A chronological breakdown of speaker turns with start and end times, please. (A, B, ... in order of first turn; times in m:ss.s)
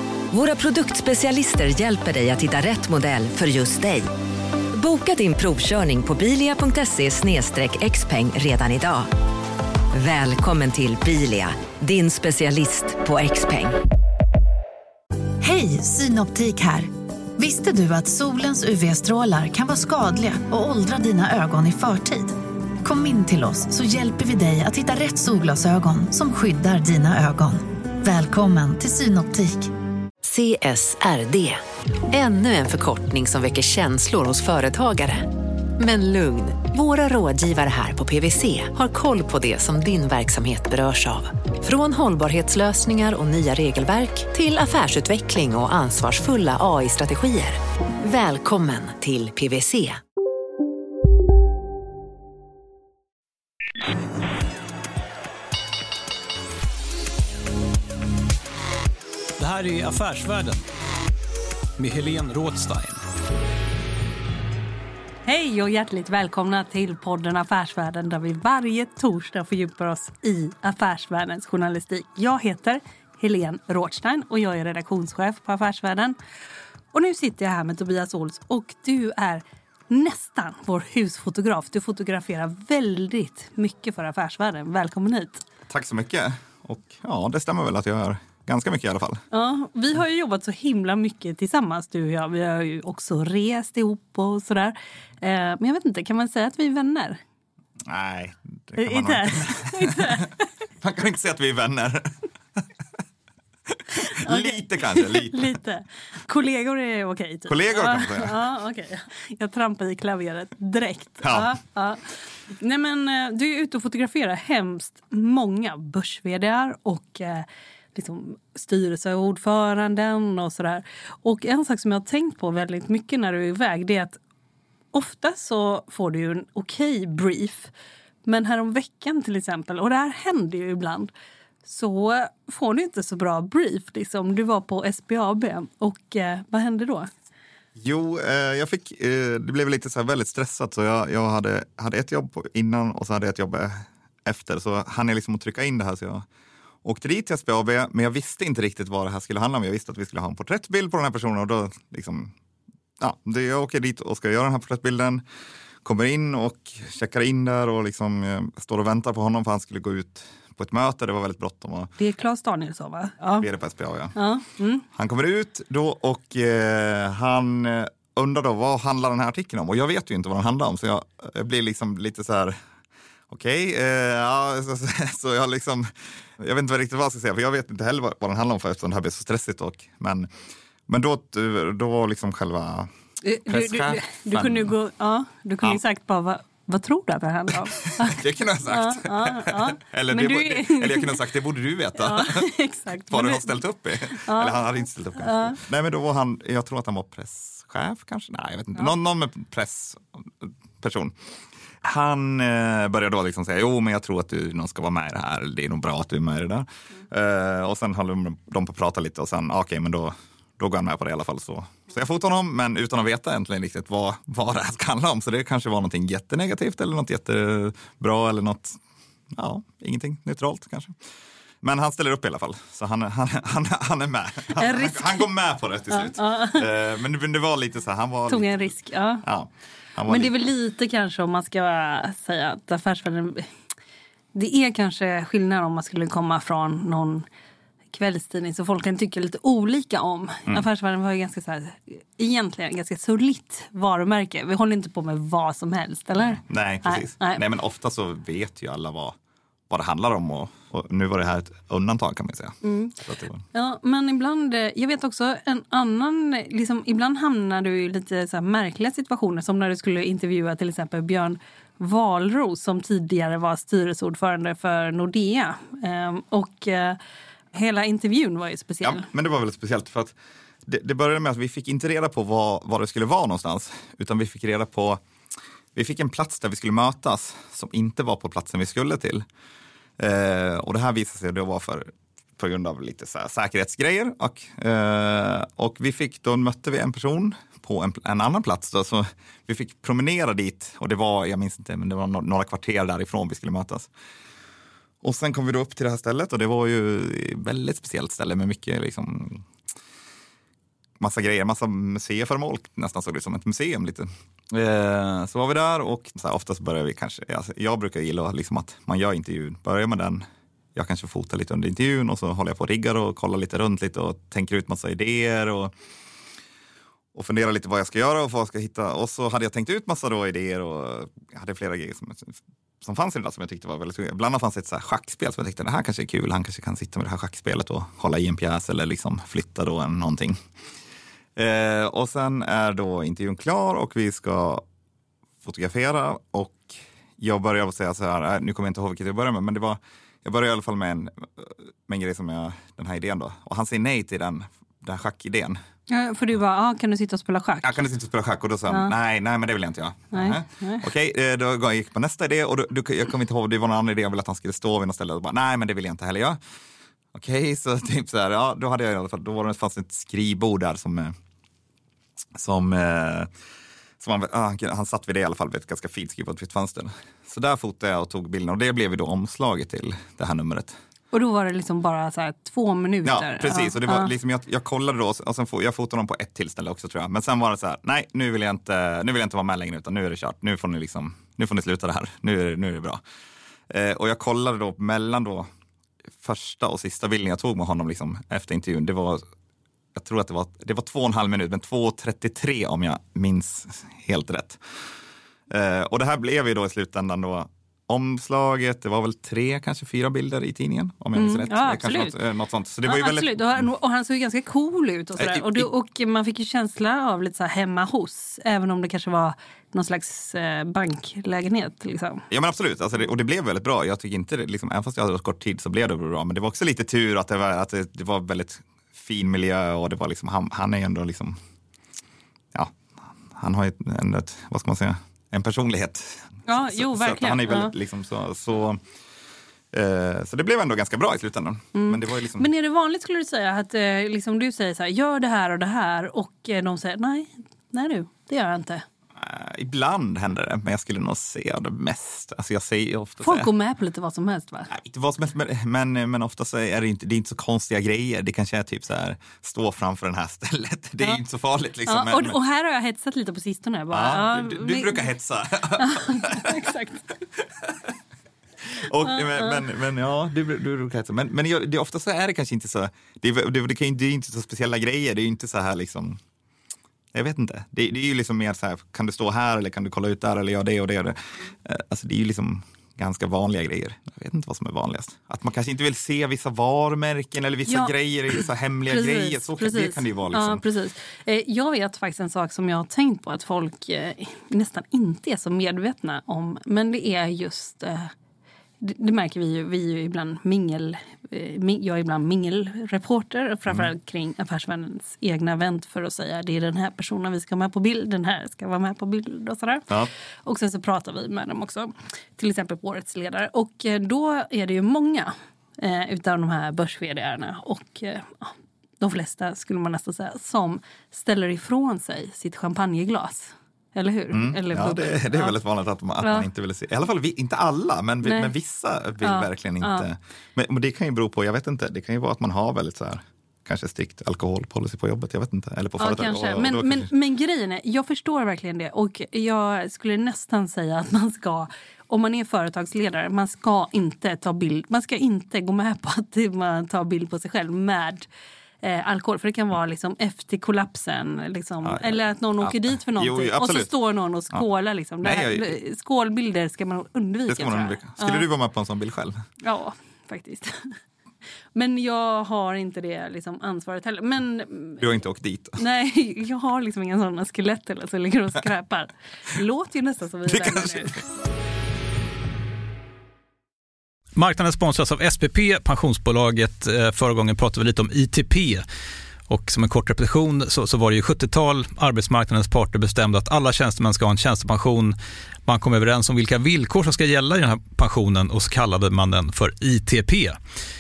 0:00.3-0:04.1 A
0:04.7-0:09.1 A
0:09.9-0:13.8 A
0:15.4-0:29.7 B
0:30.2-0:50.0 C
0:59.4-1:00.6 D
1:01.8-1:03.0 D
1:05.2-1:16.2 E
1:16.9-1:25.4 E
1:25.7-1:29.2 F
1:29.3-1:37.2 E
1:37.8-1:40.3 F
1:38.8-1:40.5 E
1:40.8-1:42.6 F
1:43.7-1:45.6 F
1:44.0-2:04.2 E
1:47.5-1:48.4 F
1:51.2-1:51.6 F
2:04.9-2:07.7 E
2:08.2-2:11.1 E
2:11.6-2:17.1 E
2:17.8-2:26.2 F
2:26.8-2:32.3 F
2:33.0-2:35.2 F
2:35.8-2:41.9 F
2:42.0-2:43.5 E
2:43.4-2:44.2 F
2:44.2-2:44.8 E
2:44.9-2:52.6 F
2:53.3-3:00.3 F
3:00.9-3:02.9 F
3:03.2-3:11.2 E
3:03.5-3:04.7 F
3:07.8-3:12.5 F
3:12.0-3:14.7 E
3:13.1-3:21.2 F
3:15.2-3:15.6 E
3:21.8-3:38.8 F
3:39.3-3:41.0 F
3:41.6-3:50.3 F
3:44.6-3:45.3 E
3:45.9-3:46.7 E
3:48.3-3:49.2 E
3:50.0-3:53.5 E
3:54.3-3:57.3 E
3:57.9-4:07.4 E
4:06.2-4:09.2 F
4:09.7-4:13.4 F
4:12.6-4:13.0 E
4:13.5-4:27.0 E
4:27.5-4:29.1 E
4:28.8-4:35.0 F
4:35.8-4:39.2 F
4:40.0-4:53.9 F
4:55.0-4:59.4 F
5:01.0-5:15.7 F
5:17.2-5:30.4 F
5:31.4-5:34.6 F
5:35.4-5:45.6 F
5:45.9-5:47.7 E
5:47.6-5:56.4 F
5:50.1-5:50.9 E
5:57.1-6:01.1 F
6:02.4-6:03.3 F
6:04.0-6:10.8 F
6:11.1-6:14.1 E
6:13.0-6:23.0 F
6:23.7-6:25.5 F
6:26.2-6:29.2 F
6:30.0-6:34.6 F
6:35.5-6:43.7 F
6:41.2-6:42.2 E
6:42.9-6:52.3 E
6:45.2-6:45.7 F
6:52.3-7:01.4 F
7:02.5-7:08.8 F
7:06.5-7:07.7 E
7:09.7-7:12.5 F
7:11.7-7:18.8 E
7:19.2-7:23.5 F
7:23.2-7:24.7 E
7:24.7-7:32.4 F
7:31.9-7:35.1 E
7:33.9-7:36.7 F
7:35.8-7:37.1 E
7:37.4-7:38.0 F
7:38.6-7:46.2 F
7:39.0-7:39.6 E
7:47.1-8:00.6 F
7:57.7-7:57.9 E
7:58.9-8:08.1 E
8:08.8-8:19.9 E
8:20.5-8:35.5 E
8:34.3-8:47.1 F
8:36.2-8:36.5 E
8:38.2-8:38.5 E
8:39.2-8:40.1 E
8:46.0-8:58.3 E
8:58.8-9:08.5 E
9:01.8-9:03.9 F
9:05.2-9:05.8 F
9:07.5-9:09.4 F
9:09.6-9:10.9 E
9:11.8-9:15.0 E
9:15.0-9:15.8 F
9:15.8-9:21.2 E
9:20.5-9:21.2 F
9:24.4-9:28.8 D
9:29.5-9:35.2 D
9:35.7-9:40.6 D